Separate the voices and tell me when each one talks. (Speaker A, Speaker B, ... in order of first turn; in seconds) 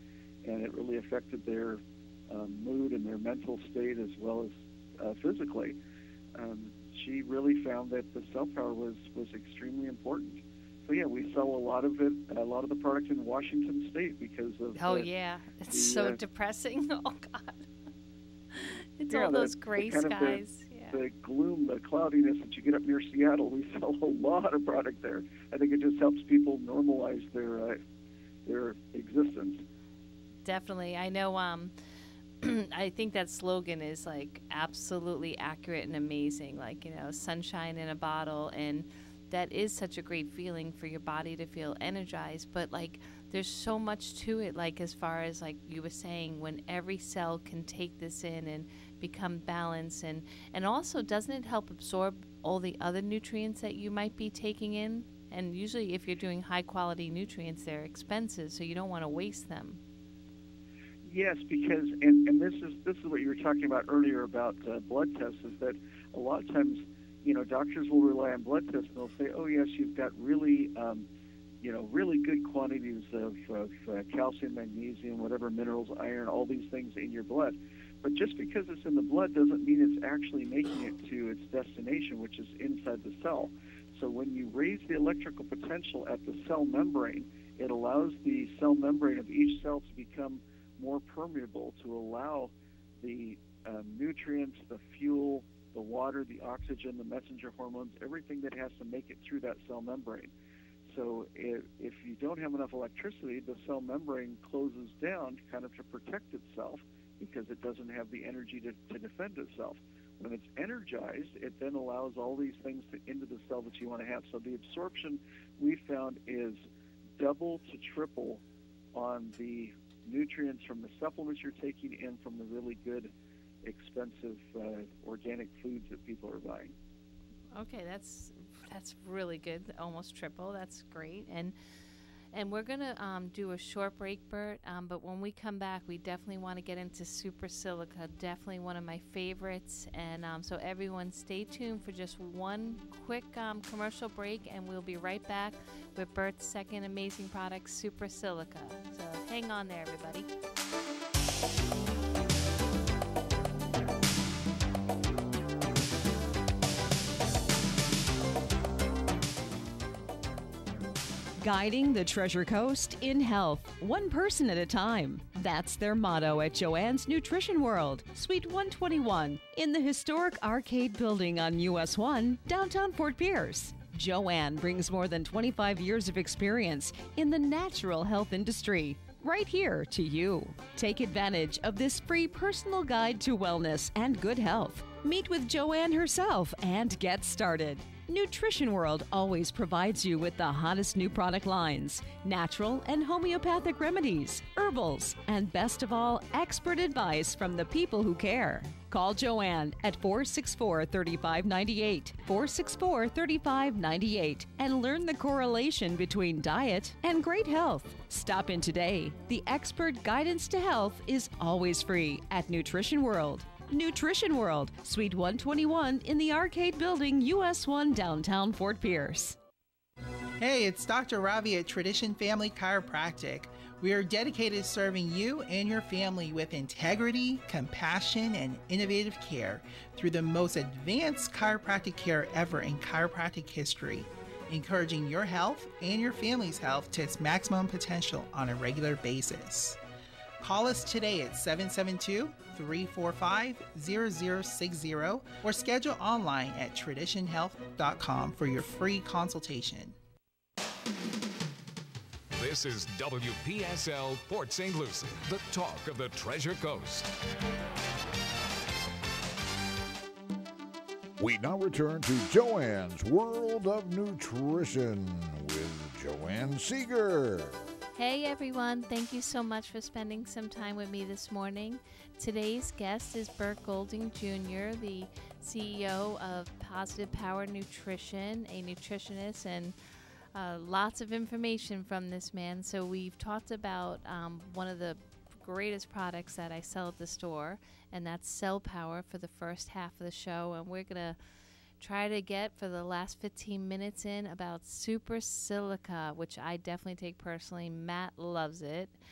Speaker A: 0.4-5.8, 6.3-15.1, 15.7-16.2, 19.1-27.8, 28.4-29.6, 61.0-71.0, 71.6-100.3, 100.9-116.6, 117.2-118.4, 118.9-123.1, 123.6-126.7
Speaker B: 14.8-17.7, 19.0-21.0, 30.4-31.7, 32.4-59.8, 127.5-131.5, 132.3-150.3, 267.9-279.7, 280.3-291.2, 291.8-298.9
Speaker C: 161.4-219.4
Speaker D: 220.4-239.8, 240.4-249.9
Speaker E: 252.3-257.1
Speaker F: 261.2-267.6